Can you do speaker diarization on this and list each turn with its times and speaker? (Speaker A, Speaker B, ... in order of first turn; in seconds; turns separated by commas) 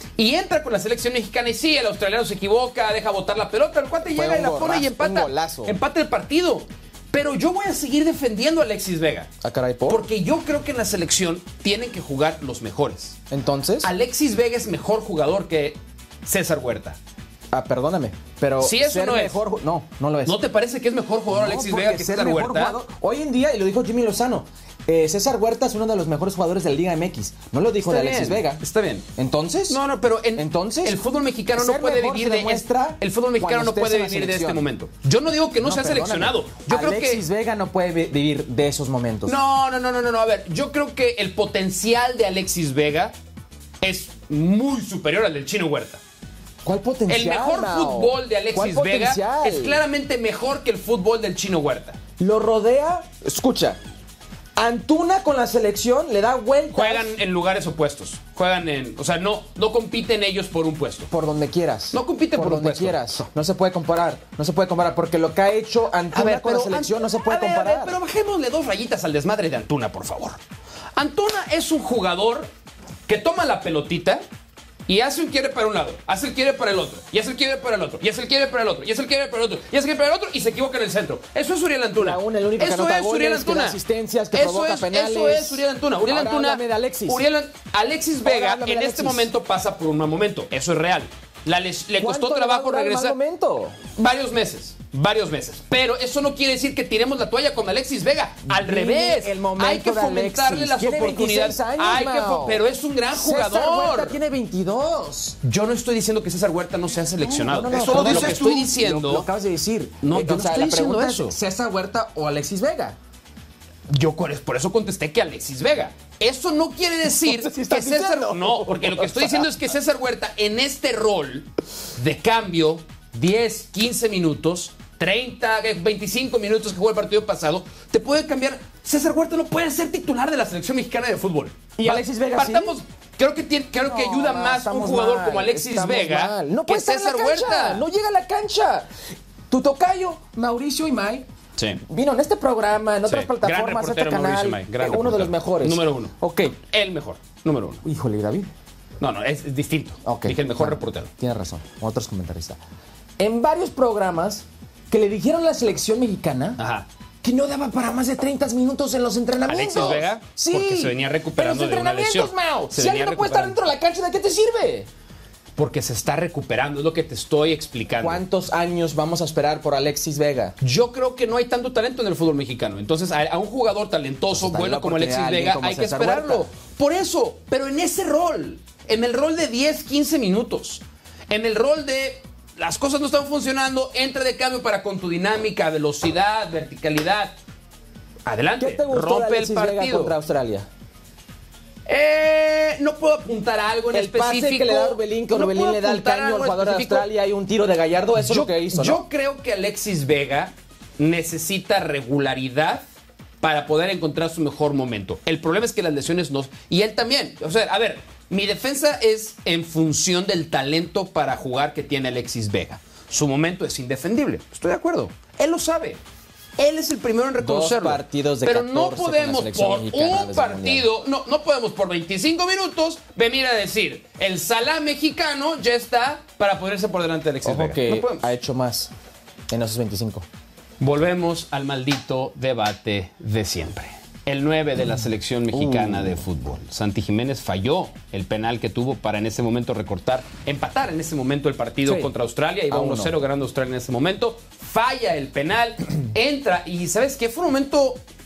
Speaker A: 0.2-9.3, Speaker B: 4.1-5.8, Speaker B: 9.4-10.0, Speaker A: 9.9-13.2, Speaker B: 13.3-13.9, Speaker A: 13.8-17.0, Speaker B: 17.5-20.4, Speaker A: 18.6-19.4, Speaker A: 20.2-22.8, Speaker B: 21.3-28.6, Speaker A: 27.8-29.1, Speaker B: 29.2-29.8, Speaker A: 29.7-37.2, Speaker B: 30.4-31.0, Speaker B: 31.6-34.6, Speaker B: 35.6-39.4, Speaker A: 39.2-43.1, Speaker A: 43.8-46.0, Speaker B: 46.6-49.8, Speaker A: 47.1-52.0, Speaker B: 52.2-53.8, Speaker B: 54.6-57.1, Speaker A: 56.7-61.1, Speaker B: 61.1-68.0, Speaker A: 61.9-63.2, Speaker A: 66.1-70.4, Speaker A: 70.9-72.5, Speaker A: 73.1-74.2, Speaker A: 74.9-83.8, Speaker B: 82.0-87.2, Speaker A: 84.3-93.2, Speaker B: 88.2-89.3, Speaker B: 92.0-93.9, Speaker A: 93.9-104.2, Speaker B: 98.5-105.4, Speaker A: 105.4-109.3, Speaker B: 107.2-113.0, Speaker A: 110.0-111.4, Speaker A: 113.9-137.8, Speaker B: 117.1-119.6, Speaker B: 131.8-132.7, Speaker B: 133.8-138.9, Speaker B: 139.5-141.3, Speaker B: 141.8-146.6, Speaker A: 143.1-147.8, Speaker B: 147.8-148.5, Speaker A: 149.0-151.1, Speaker B: 150.1-152.6, Speaker B: 153.2-156.6, Speaker A: 156.6-156.9, Speaker B: 157.2-164.9, Speaker A: 159.5-163.6, Speaker A: 165.6-168.2, Speaker B: 168.0-170.6, Speaker A: 170.6-187.3, Speaker B: 174.3-176.5, Speaker A: 188.2-190.1, Speaker B: 188.6-190.7, Speaker A: 191.9-197.1, Speaker B: 193.9-199.0, Speaker A: 198.2-202.8, Speaker A: 203.4-216.0, Speaker A: 216.6-228.3, Speaker B: 217.4-220.9, Speaker B: 227.4-228.9, Speaker B: 229.5-230.2, Speaker A: 230.8-248.0, Speaker B: 235.5-236.2, Speaker B: 241.8-242.1, Speaker B: 242.7-243.1